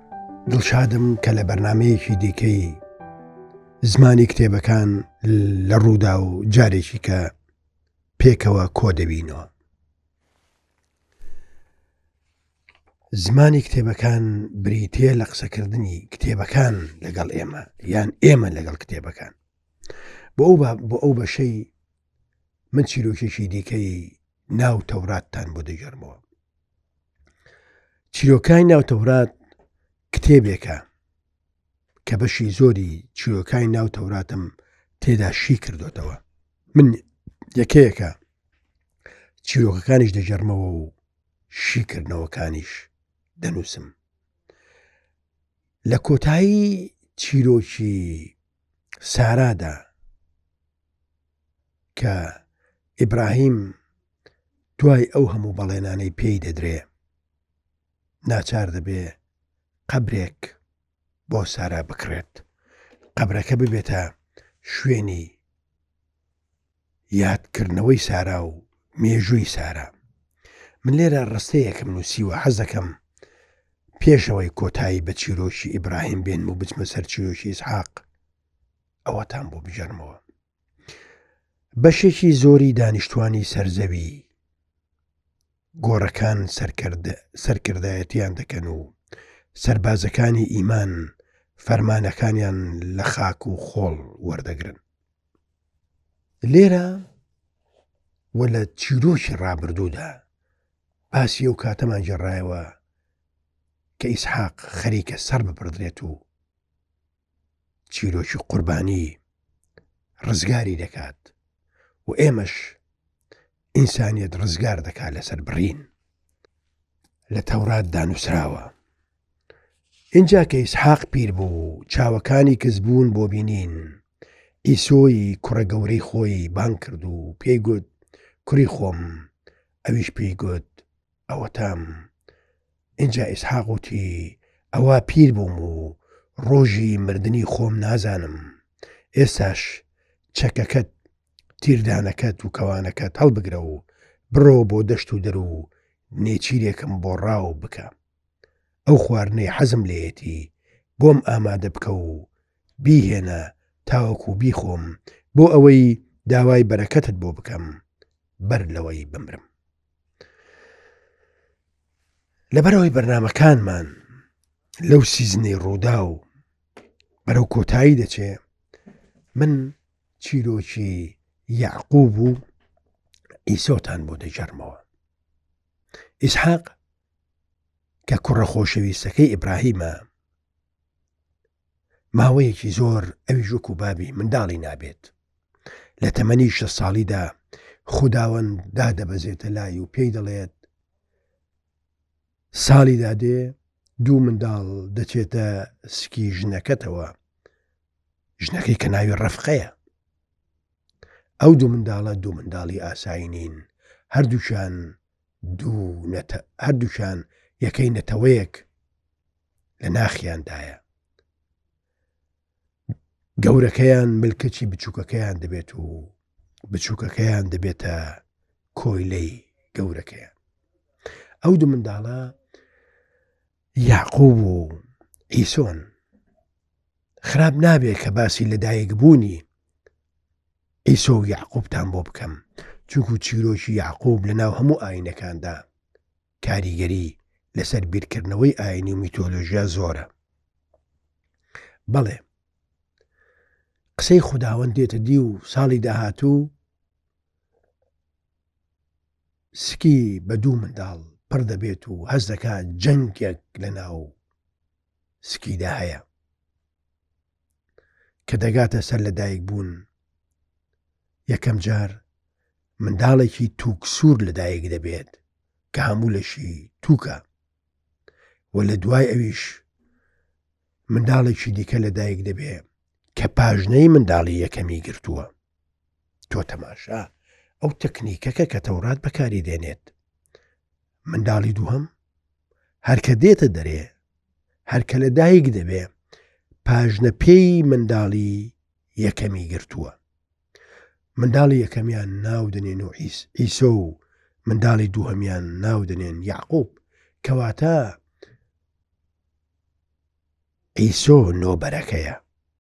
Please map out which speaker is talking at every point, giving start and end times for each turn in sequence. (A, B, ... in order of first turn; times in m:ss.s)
0:00.5-0:02.8 A
0:03.9-0:07.3 A
0:08.2-0:09.5 A
0:13.2-0:19.4 A
0:20.4-0:21.7 A
0:22.7-0:26.2 A
0:28.1-0:29.3 A
0:30.1-0:30.9 A
0:32.0-0:36.2 A
0:36.7-0:37.0 A
0:37.6-0:38.2 A
0:39.4-0:40.9 A
0:41.5-0:43.9 A
0:45.9-0:48.3 A
0:49.0-0:49.9 A
0:52.0-0:52.4 A
0:53.0-0:53.8 A
0:54.8-0:56.9 A
0:58.3-0:59.2 A
0:59.9-1:00.6 A
1:01.3-1:02.4 A
1:03.2-1:05.4 A
1:07.1-1:09.9 A
1:10.8-1:13.0 A
1:14.0-1:18.0 A
1:19.0-1:20.2 A
1:21.8-1:24.3 A
1:25.8-1:28.9 A
1:29.6-1:34.8 A
1:36.4-1:37.0 A
1:38.3-1:40.2 A
1:41.1-1:42.8 A
1:44.0-1:46.2 A
1:47.9-1:49.2 A
1:50.2-1:51.3 A
1:52.0-1:52.8 A
1:53.8-1:55.9 A
1:57.3-1:58.7 A
2:00.1-2:04.0 A
2:04.7-2:07.9 A
2:08.4-2:09.3 A
2:09.9-2:12.1 A
2:13.0-2:18.5 A
2:19.2-2:19.8 A
2:20.3-2:20.9 A
2:21.6-2:27.9 A
2:28.9-2:37.8 A
2:38.4-2:39.4 A
2:42.5-2:44.0 A
2:44.9-2:46.2 A
2:47.3-2:48.4 A
2:49.3-2:52.4 A
2:53.5-2:54.8 A
2:56.2-2:56.8 A
2:58.1-3:00.0 A
3:02.1-3:05.1 A
3:06.0-3:10.6 A
3:12.5-3:17.2 A
3:18.4-3:19.8 A
3:21.4-3:25.0 A
3:25.5-3:28.7 A
3:29.8-3:30.8 A
3:33.4-3:36.2 A
3:36.7-3:38.2 A
3:38.8-3:40.3 A
3:41.4-3:42.4 A
3:43.8-3:45.8 A
3:47.2-3:49.5 A
3:50.9-3:55.6 A
3:56.4-4:00.1 A
4:01.9-4:02.2 A
4:04.0-4:06.5 A
4:09.5-4:14.2 A
4:15.2-4:16.0 A
4:18.3-4:19.9 A
4:21.3-4:22.0 A
4:22.8-4:25.2 A
4:25.7-4:27.2 A
4:28.5-4:29.6 A
4:30.9-4:32.6 A
4:33.2-4:35.3 A
4:36.3-4:37.1 A
4:37.6-4:39.9 A
4:41.1-4:41.9 A
4:42.8-4:43.9 A
4:44.7-4:45.9 A
4:46.6-4:50.0 A
4:51.2-4:58.0 A
5:00.8-5:02.2 A